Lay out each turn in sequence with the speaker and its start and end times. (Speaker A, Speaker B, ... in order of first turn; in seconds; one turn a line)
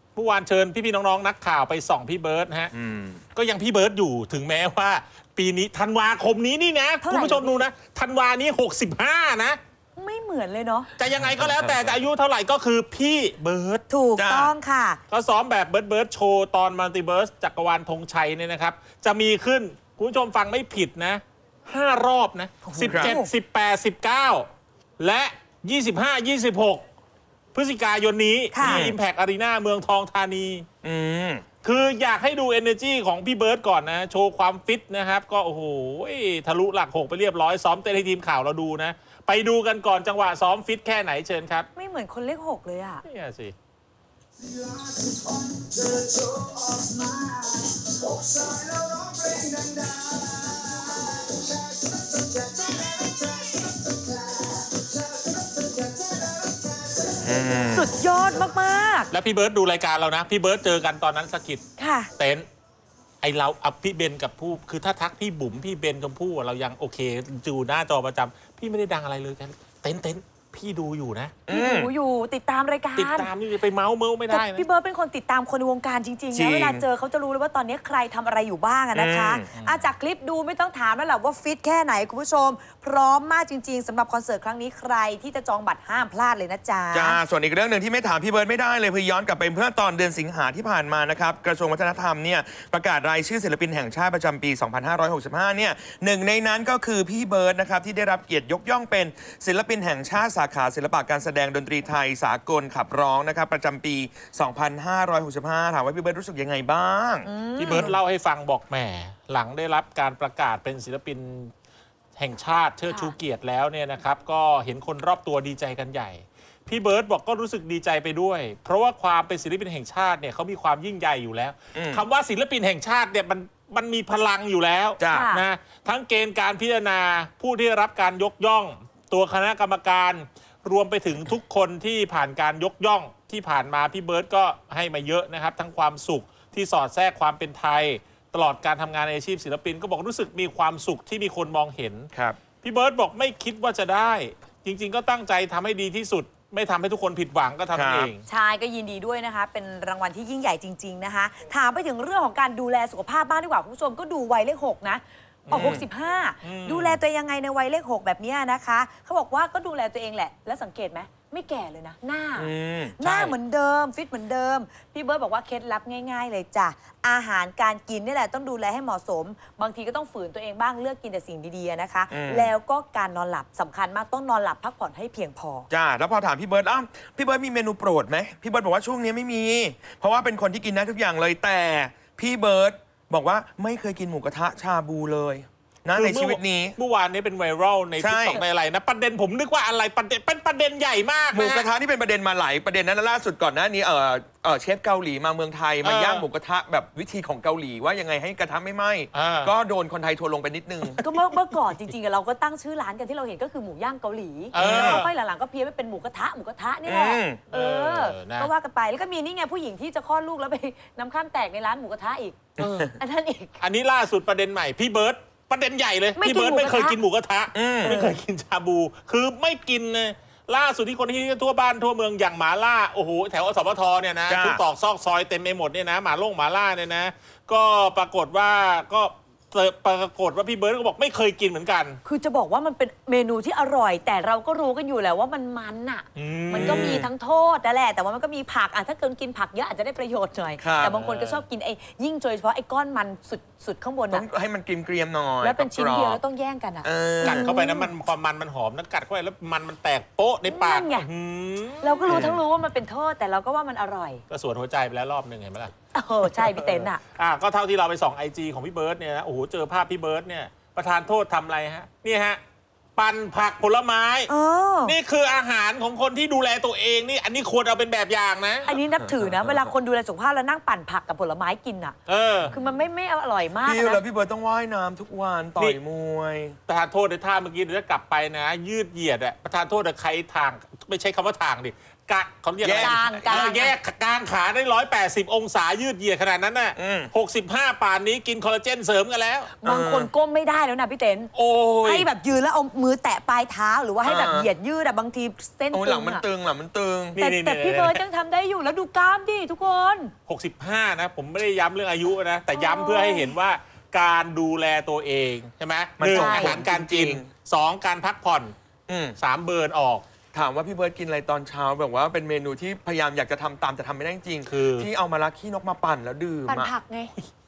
Speaker A: 0.2-2.7
Speaker B: 2.7-3.2
Speaker A: 3.4-9.6
Speaker C: 7.0-7.6
Speaker C: 10.0-10.9
Speaker A: 11.0-13.8
Speaker B: 11.2-12.0
Speaker C: 13.9-15.0
Speaker B: 14.2-14.5
Speaker A: 15.1-24.5
Speaker C: 22.7-23.3
Speaker B: 22.9-23.2
Speaker A: 25.0-26.8
Speaker A: 27.5-30.7
Speaker C: 28.5-28.9
Speaker B: 28.6-28.9
Speaker B: 30.8-31.4
Speaker A: 31.6-41.7
Speaker C: 41.8-43.0
Speaker A: 43.0-43.5
Speaker C: 44.4-57.1
Speaker B: 57.2-57.9
Speaker C: 57.7-59.1
Speaker A: 59.1-61.6
Speaker C: 61.8-62.1
Speaker A: 62.2-62.5
Speaker A: 63.2-71.3
Speaker B: 71.5-71.9
Speaker C: 71.5-73.3
Speaker A: 73.0-74.7
Speaker C: 74.3-87.2
Speaker B: 76.3-76.8
Speaker B: 79.0-79.5
Speaker A: 79.5-79.9
Speaker B: 86.9-107.9
Speaker C: 107.2-108.0
Speaker A: 107.6-111.5
Speaker A: 112.2-142.1
Speaker B: 121.7-122.0
Speaker B: 125.0-125.3
Speaker C: 125.1-125.4
Speaker B: 142.1-142.4
Speaker A: 142.6-148.3
Speaker B: 147.7-148.1
Speaker C: 148.3-175.7
Speaker A: 155.5-155.8
Speaker B: 155.5-155.8
Speaker A: 156.4-157.0
Speaker B: 162.4-163.0
Speaker A: 163.0-163.3
Speaker B: 172.1-172.5
Speaker B: 175.7-186.8
Speaker A: 185.9-191.7
Speaker B: 188.0-188.4
Speaker B: 191.3-201.1
Speaker A: 195.8-196.2
Speaker A: 199.1-199.5
Speaker C: 201.0-213.6
Speaker A: 204.5-205.1
Speaker B: 204.6-205.1
Speaker B: 206.8-207.4
Speaker A: 207.5-208.5
Speaker B: 212.6-212.9
Speaker A: 212.6-212.9
Speaker A: 213.6-232.0
Speaker C: 216.2-217.0
Speaker B: 217.5-218.1
Speaker B: 224.3-224.6
Speaker C: 232.1-244.2
Speaker A: 236.2-237.0
Speaker B: 236.5-237.1
Speaker B: 240.6-240.9
Speaker A: 240.8-241.4
Speaker B: 244.1-246.2
Speaker C: 245.4-247.9
Speaker B: 246.8-247.5
Speaker A: 247.2-252.4
Speaker C: 250.5-251.1
Speaker C: 251.8-254.2
Speaker B: 252.1-252.4
Speaker A: 254.3-255.7
Speaker C: 255.9-257.0
Speaker A: 256.3-262.4
Speaker A: 263.0-264.3
Speaker C: 264.3-265.0
Speaker A: 264.9-268.7
Speaker C: 268.7-272.0
Speaker B: 269.0-269.6
Speaker A: 272.1-272.5
Speaker B: 272.4-272.7
Speaker C: 272.5-274.0
Speaker B: 273.6-276.6
Speaker A: 276.7-289.5
Speaker B: 282.6-283.6
Speaker C: 282.7-283.7
Speaker B: 286.8-287.1
Speaker C: 289.6-291.3
Speaker B: 289.6-290.1
Speaker A: 291.3-292.1
Speaker C: 291.8-296.2
Speaker B: 294.0-294.5
Speaker B: 295.7-297.2
Speaker A: 297.1-298.0
Speaker C: 297.2-300.1
Speaker A: 300.3-308.6
Speaker C: 302.5-303.4
Speaker B: 306.0-307.3
Speaker C: 306.1-306.6
Speaker B: 308.9-309.2
Speaker A: 309.2-310.0
Speaker B: 310.3-316.7
Speaker A: 314.5-314.9
Speaker C: 316.5-317.1